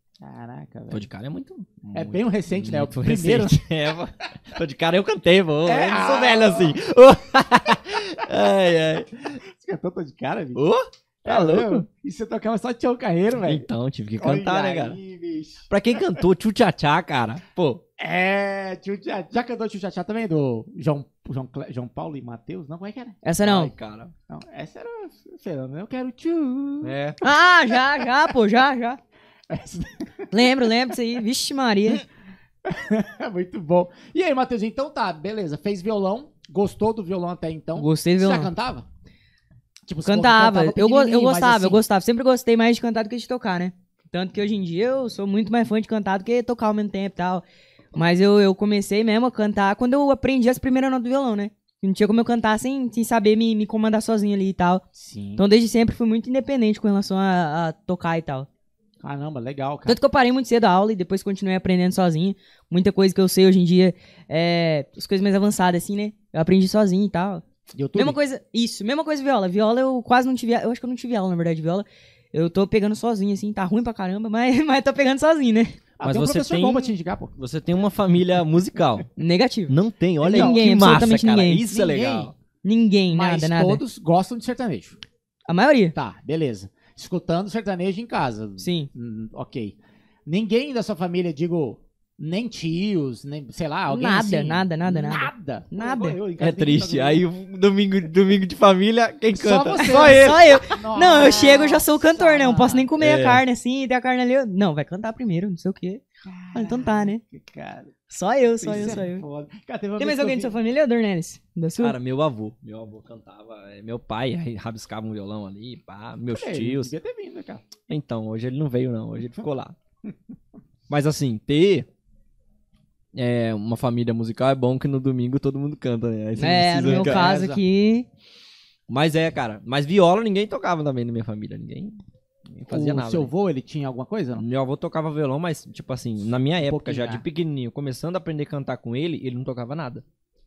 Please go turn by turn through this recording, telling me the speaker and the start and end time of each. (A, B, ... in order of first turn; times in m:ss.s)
0:00.2-0:01.0 A
0:00.9-0:09.3 B
0:01.9-0:03.6 A
0:05.6-0:06.8 A
0:09.4-0:10.6 A
0:10.6-0:11.8 B
0:11.2-0:13.7 A
0:13.4-0:15.0 B
0:14.2-0:16.2 A
0:15.7-0:17.8 B
0:18.0-0:23.2 A
0:23.2-0:23.7 C
0:23.4-0:24.1 B
0:24.3-0:26.9 A
0:26.8-0:27.2 B
0:27.2-0:29.0 C
0:29.5-0:30.7 A
0:30.3-0:32.0 C
0:32.6-0:38.8 A
0:37.8-0:38.5 C
0:39.9-0:41.8 A
0:40.0-0:54.8 C
0:54.9-0:55.4 A
0:55.4-0:58.5 C
0:59.0-1:00.0 A
0:59.8-1:07.4 C
1:07.7-1:08.2 A
1:07.9-1:15.8 C
1:16.0-1:17.3 A
1:16.0-1:19.1 B
1:19.2-1:19.7 C
1:19.7-1:22.3 B
1:20.2-1:20.9 A
1:20.2-1:21.6 C
1:21.7-1:22.3 A
1:22.6-1:23.8 C
1:23.1-1:25.0 A
1:25.5-1:25.9 C
1:25.9-1:37.2 A
1:28.6-1:28.9 C
1:33.9-1:36.2 C
1:36.4-1:40.7 B
1:39.3-1:42.9 A
1:39.8-1:46.0 C
1:43.0-1:43.4 B
1:46.2-1:47.9 A
1:46.5-1:47.2 C
1:48.1-1:49.2 C
1:48.6-1:50.6 A
1:50.0-1:52.0 C
1:51.8-1:56.9 B
1:56.3-1:57.7 A
1:57.9-1:59.8 B
2:00.9-2:01.9 B
2:03.1-2:07.2 B
2:06.4-2:08.1 C
2:06.8-2:07.6 A
2:08.9-2:12.0 B
2:12.5-2:13.3 B
2:12.7-2:14.4 A
2:14.4-2:20.0 B
2:16.6-2:17.2 A